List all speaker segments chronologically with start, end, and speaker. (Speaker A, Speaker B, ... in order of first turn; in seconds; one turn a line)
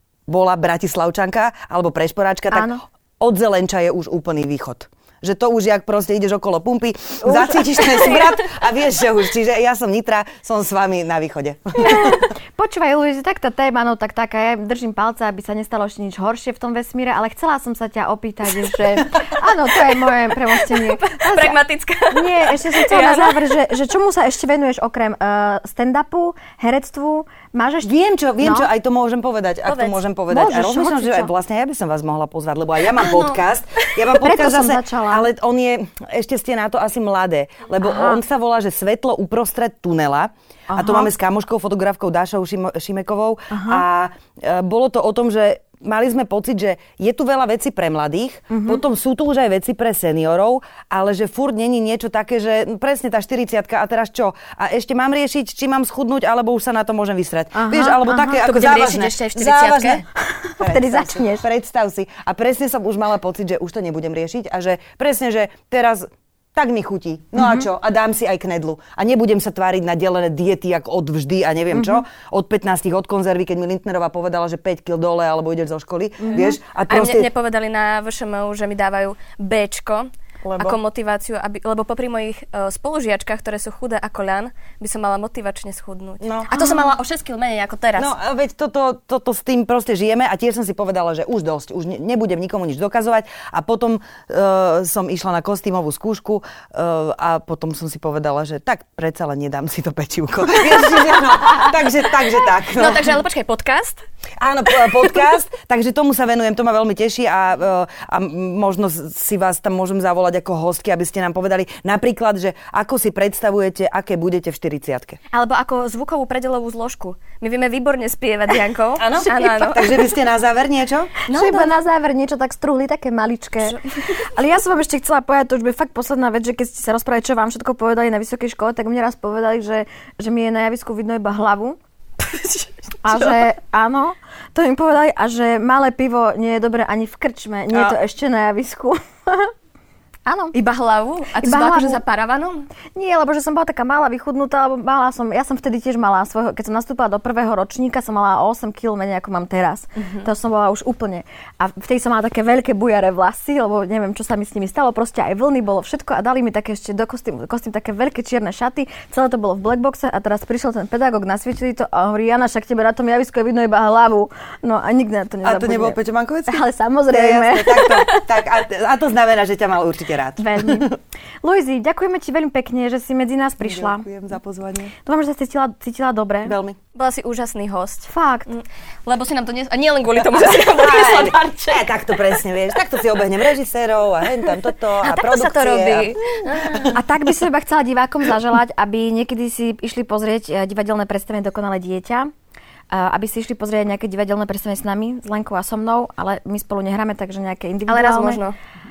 Speaker A: 0.3-12.2
Speaker B: 2.5-2.8
Speaker B: 7.2-7.8
Speaker B: 11.8-21.6
Speaker C: 20.5-23.4
Speaker B: 22.1-28.7
Speaker A: 27.8-60.0
Speaker C: 29.6-30.0
Speaker B: 30.3-31.3
Speaker C: 33.0-33.4
Speaker B: 34.1-35.3
Speaker B: 37.8-38.2
Speaker B: 40.7-41.1
Speaker B: 43.5-43.8
Speaker B: 48.5-48.8
Speaker B: 57.5-58.4
Speaker C: 58.4-60.0
Speaker B: 60.3-61.4
Speaker A: 60.6-77.3
Speaker B: 67.3-67.7
Speaker B: 71.7-72.0
Speaker B: 76.2-76.6
Speaker C: 76.3-88.1
Speaker A: 80.4-80.8
Speaker A: 86.2-86.5
Speaker A: 88.0-103.2
Speaker C: 102.7-104.0
Speaker A: 104.4-115.2
Speaker C: 115.3-120.1
Speaker A: 119.0-121.1
Speaker C: 121.3-121.8
Speaker B: 121.3-131.8
Speaker C: 132.2-133.4
Speaker B: 133.0-139.5
Speaker B: 140.2-140.5
Speaker C: 140.5-142.7
Speaker B: 141.4-142.0
Speaker B: 142.9-166.0
Speaker C: 150.0-150.3
Speaker A: 165.4-170.9
Speaker B: 166.5-168.0
Speaker B: 170.4-170.9
Speaker B: 171.4-174.0
Speaker A: 173.6-174.9
Speaker B: 175.0-176.6
Speaker A: 176.4-176.8
Speaker C: 176.9-182.3
Speaker B: 178.1-178.5
Speaker A: 180.2-186.9
Speaker C: 184.4-186.9
Speaker B: 186.9-192.3
Speaker B: 192.9-198.4
Speaker C: 197.9-198.5